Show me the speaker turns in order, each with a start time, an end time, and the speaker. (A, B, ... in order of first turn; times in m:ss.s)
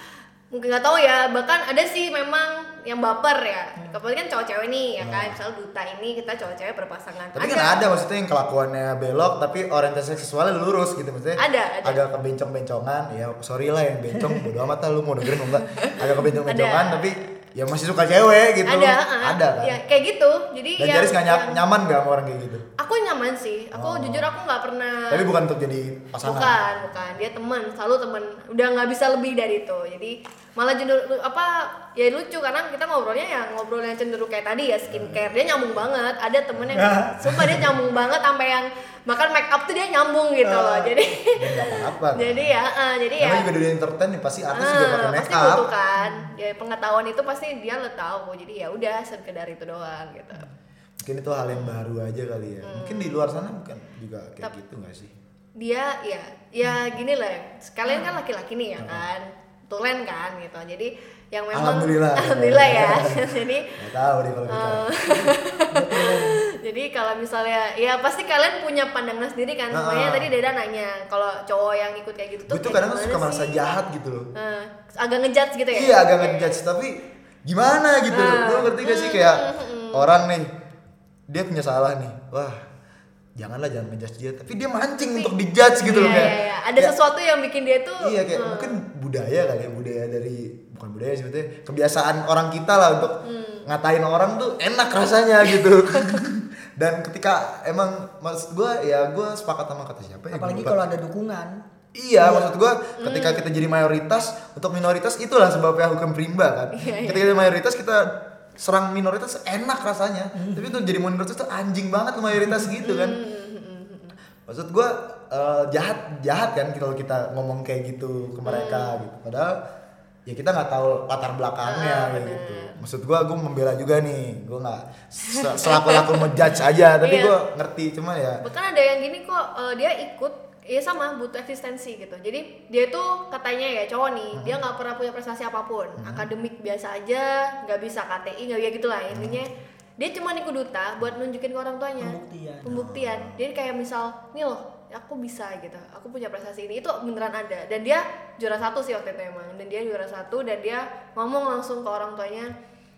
0:00.5-0:07.9 A
0:05.0-0:05.4 B
0:07.4-0:19.8 B
0:11.4-0:12.0 A
0:14.2-0:14.4 C
0:15.3-0:17.3 A
0:18.6-0:21.6 A
0:20.8-0:22.6 B
0:22.8-0:25.2 A
0:23.7-0:24.3 B
0:25.1-0:26.6 B
0:26.2-0:43.5 A
0:34.9-0:35.2 B
0:36.7-0:37.7 C
0:40.4-0:41.0 C
0:41.3-0:42.5 B
0:43.2-0:45.6 B
0:44.5-0:50.5 A
0:46.0-0:46.3 C
0:51.0-0:55.1 B
0:52.6-0:53.2 A
0:55.6-1:03.8 A
0:57.9-0:58.1 C
0:58.8-0:59.0 B
1:01.5-1:05.0 B
1:04.5-1:13.7 A
1:05.1-1:06.4 C
1:09.7-1:10.3 B
1:12.5-1:14.3 B
1:14.3-1:16.5 A
1:15.7-1:20.5 B
1:18.1-1:20.1 A
1:21.3-1:22.6 B
1:23.4-1:26.9 B
1:25.8-1:26.2 C
1:25.8-1:28.8 A
1:28.0-1:40.9 B
1:33.2-1:33.6 A
1:35.9-1:36.2 A
1:40.3-1:41.6 C
1:41.9-1:53.2 B
1:42.2-1:42.5 C
1:43.0-1:43.4 A
1:46.7-1:47.5 A
1:50.3-1:50.7 C
1:52.8-1:54.2 A
1:54.5-1:59.6 B
1:58.4-1:59.0 A
2:00.3-2:08.4 B
2:01.6-2:02.8 A
2:05.3-2:06.5 A
2:07.0-2:07.3 A
2:08.4-2:32.5 A
2:14.3-2:14.6 B
2:16.0-2:16.3 B
2:19.1-2:19.4 B
2:22.0-2:22.8 C
2:22.7-2:23.4 B